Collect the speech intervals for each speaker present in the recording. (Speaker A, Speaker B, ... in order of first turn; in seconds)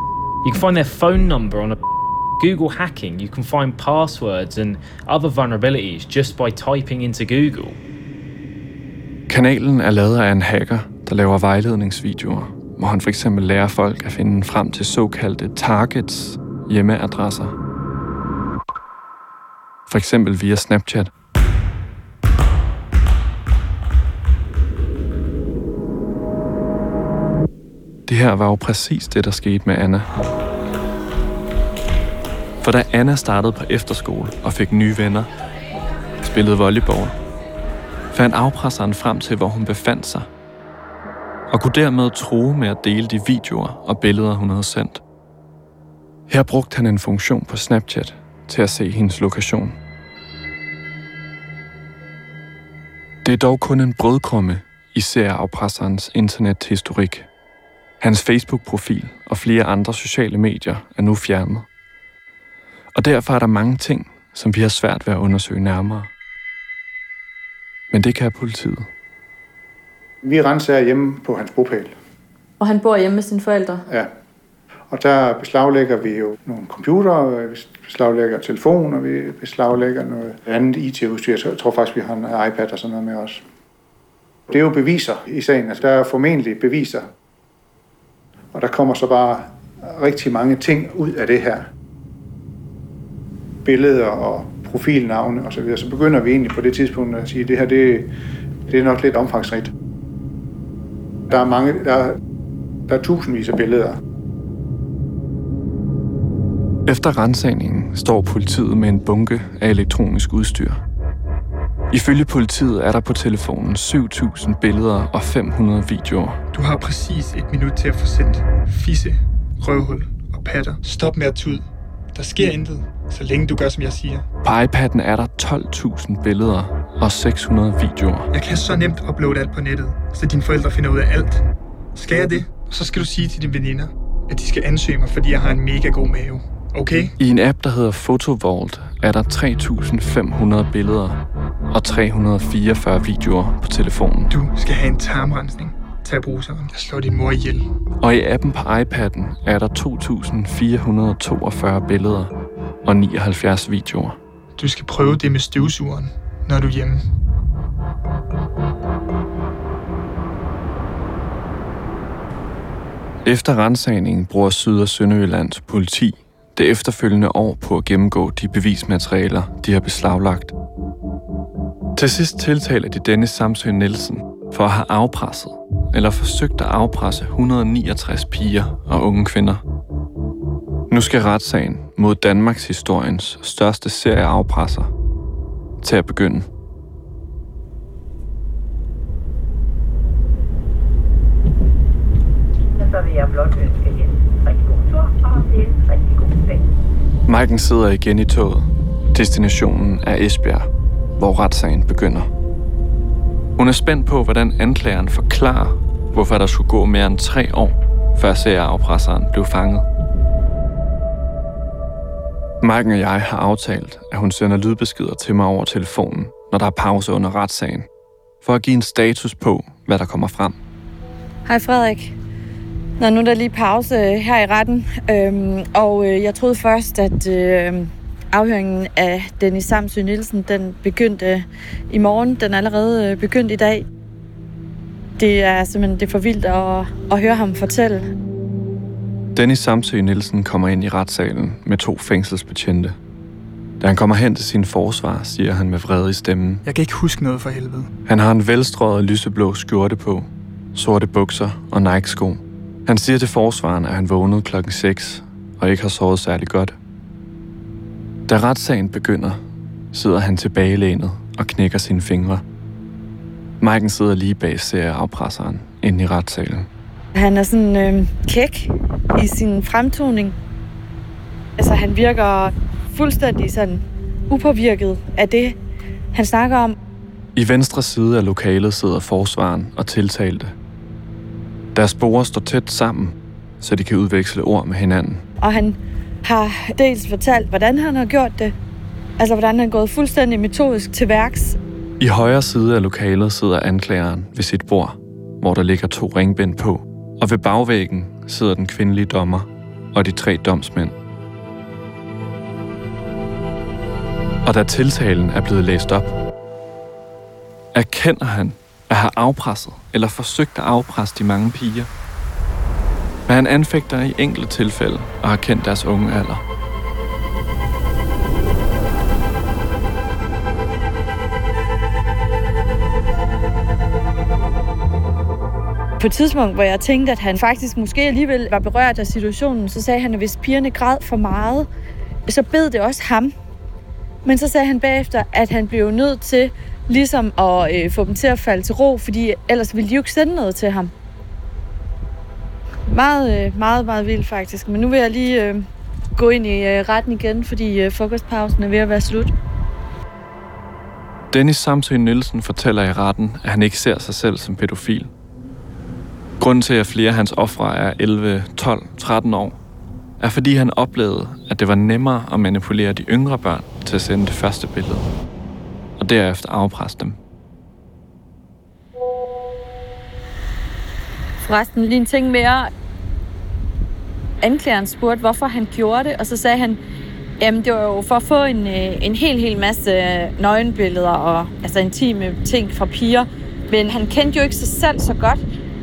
Speaker A: 0.4-1.8, 2.4-7.8
Speaker B: 9.3-17.6, 19.9-21.1, 28.1-30.1, 32.6-35.3, 36.2-37.1, 38.1-40.3, 41.5-45.0, 46.3-49.8, 53.2-57.3, 58.0-61.6, 62.9-66.1, 67.9-68.9, 106.8-110.8, 111.9-116.4, 124.4-128.3, 137.2-141.2, 141.7-144.3, 148.0-152.3, 152.8-154.2, 163.2-170.5, 171.9-179.6, 180.9-184.9, 185.8-186.5, 197.3-202.3, 203.6-209.8, 212.6-217.9, 218.4-220.6, 239.3-243.0, 243.8-246.6, 248.1-256.8, 258.3-259.4, 259.9-262.4, 263.6-266.7, 277.3-280.6, 281.7-285.2, 292.0-300.9, 304.4-306.1, 307.7-311.9, 313.3-316.4, 351.3-355.1, 356.4-359.6, 360.2-365.1, 366.0-367.2
Speaker C: 70.2-71.9, 74.9-83.4, 84.5-87.1, 88.5-91.7, 93.6-98.1, 98.7-99.7, 101.3-102.2, 102.9-104.0
Speaker D: 72.6-73.8, 221.4-222.2, 223.0-233.8, 235.2-238.1, 267.1-270.3, 271.6-275.6, 276.1-276.7, 285.4-288.5, 289.2-291.6, 326.0-331.7, 332.3-333.3, 334.2-340.9, 342.9-349.3, 371.4-372.7, 374.4-376.8, 377.4-385.4
Speaker E: 116.5-124.2, 128.3-137.1, 144.3-147.7, 154.6-157.1, 246.6-247.9
Speaker F: 192.7-196.6